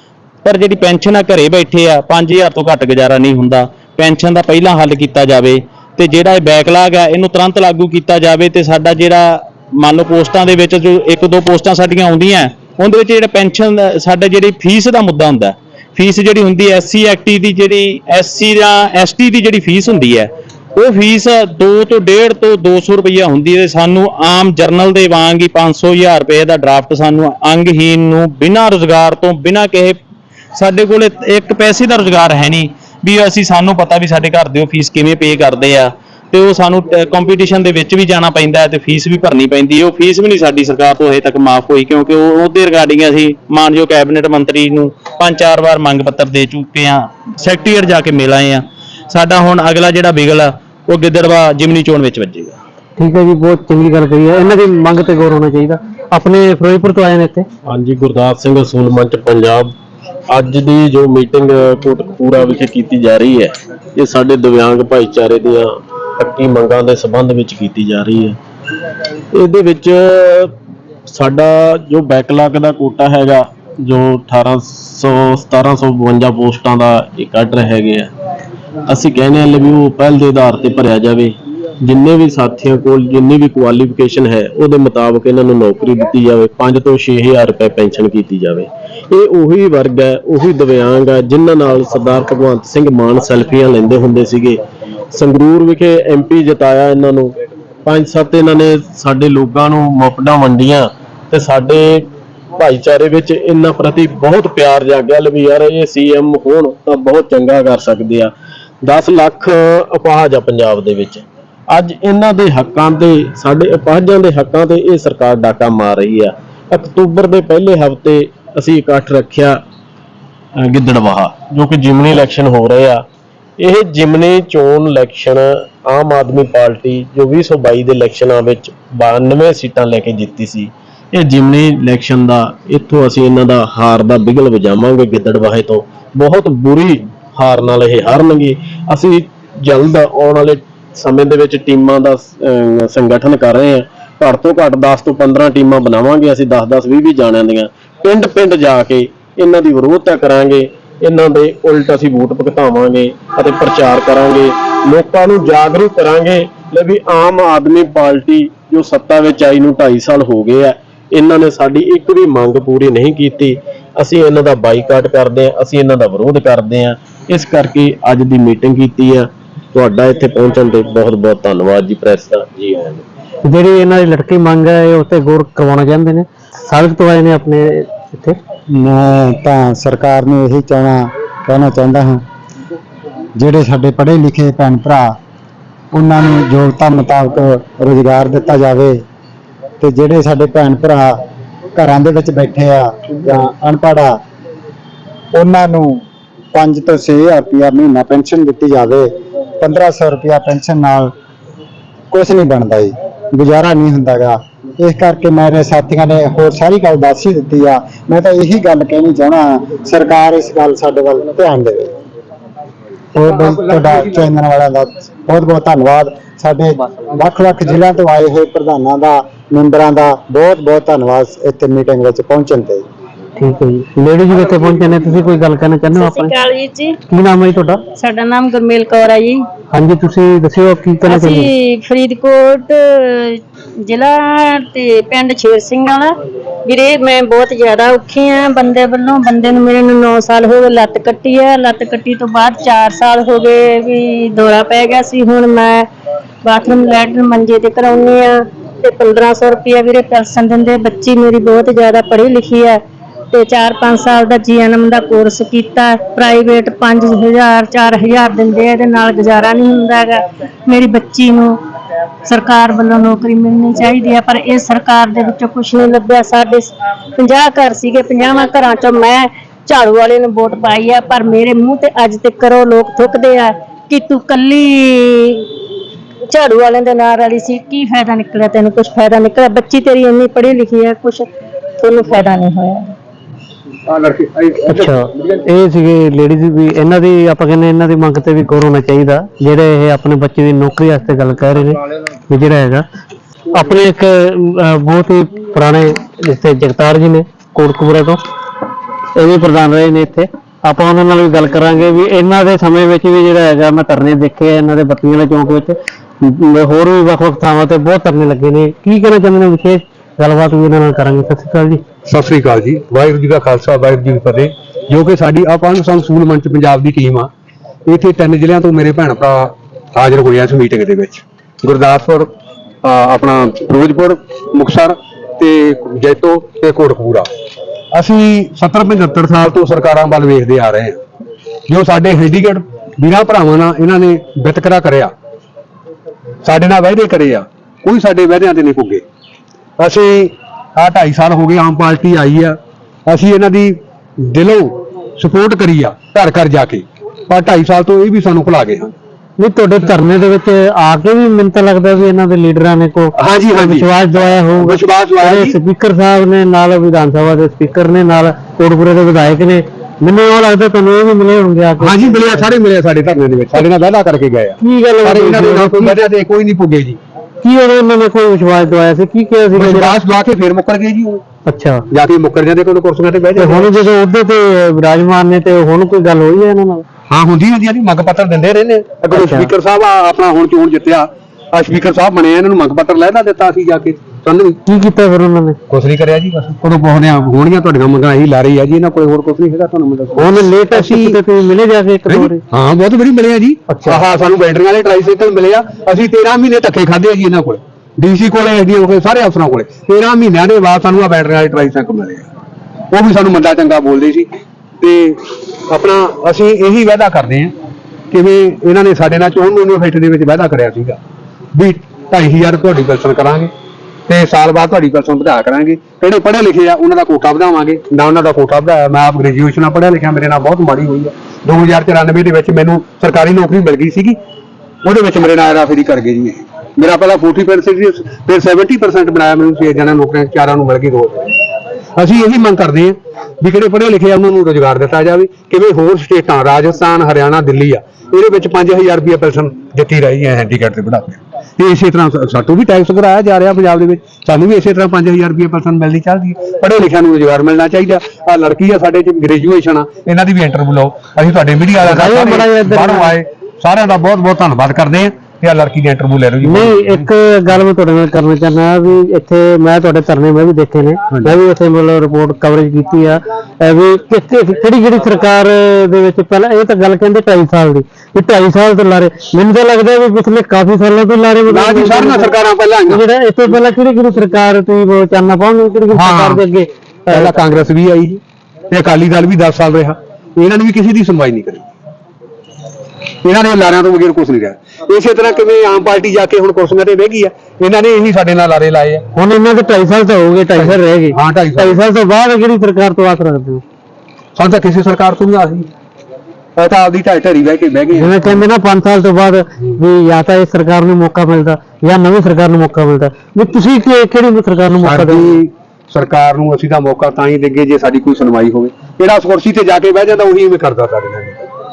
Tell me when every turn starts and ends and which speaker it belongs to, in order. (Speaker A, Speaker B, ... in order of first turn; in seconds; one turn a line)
Speaker A: 0.4-30.0
Speaker A: 30.5-52.6
Speaker B: 53.0-57.5
Speaker C: 57.6-59.7
Speaker C: 60.3-68.4
Speaker C: 69.3-70.5
Speaker C: 71.1-78.1
Speaker C: 78.9-94.6
Speaker C: 95.1-97.3
Speaker C: 97.8-108.3
Speaker C: 108.8-119.6
Speaker C: 120.6-123.0
Speaker C: 123.6-173.0
Speaker B: 173.4-178.4
Speaker D: 178.7-182.2
Speaker D: 183.3-185.2
Speaker D: 185.9-189.0
Speaker D: 189.8-191.2
Speaker D: 191.7-194.2
Speaker D: 195.3-201.1
Speaker D: 202.1-211.9
Speaker D: 213.1-222.8
Speaker E: 213.4-214.0
Speaker B: 223.4-226.3
Speaker F: 225.9-227.0
Speaker B: 227.1-227.8
Speaker F: 227.9-229.5
Speaker B: 229.7-231.5
Speaker F: 231.1-245.9
Speaker F: 246.4-252.8
Speaker F: 253.3-261.6
Speaker F: 262.3-275.5
Speaker F: 276.3-282.9
Speaker E: 283.9-285.4
Speaker B: 284.7-292.8
Speaker B: 293.5-298.2
Speaker B: 299.1-311.8
Speaker E: 312.1-317.3
Speaker E: 317.9-322.3
Speaker E: 322.8-327.3
Speaker E: 327.9-331.0
Speaker E: 331.7-335.1
Speaker E: 336.4-339.0
Speaker E: 339.8-348.9
Speaker B: 349.4-362.4
Speaker E: 353.2-353.9
Speaker E: 354.6-355.6
Speaker E: 361.8-367.0
Speaker B: 364.6-365.9
Speaker B: 367.4-369.9
Speaker E: 369.5-371.2
Speaker B: 371.4-371.8
Speaker E: 371.9-373.8
Speaker B: 373.4-376.9
Speaker E: 377.1-384.6
Speaker B: 379.1-379.5
Speaker B: 384.6-385.6
Speaker E: 385.7-391.2
Speaker B: 390.2-392.4
Speaker E: 392.1-402.3
Speaker B: 393.7-394.0
Speaker E: 402.9-404.3
Speaker E: 404.8-407.5
Speaker E: 408.1-411.0
Speaker E: 411.5-413.5
Speaker E: 414.1-424.2
Speaker E: 424.8-431.4
Speaker E: 431.9-457.1
Speaker B: 451.8-453.1
Speaker B: 456.4-472.3
Speaker E: 461.1-461.4
Speaker E: 471.5-473.0
Speaker B: 472.9-477.3
Speaker E: 475.9-476.4
Speaker E: 477.1-481.7
Speaker E: 483.2-489.0
Speaker B: 489.1-493.6
Speaker E: 490.5-491.8
Speaker E: 494.4-495.7
Speaker E: 496.6-498.3
Speaker B: 497.9-505.3
Speaker E: 504.8-511.4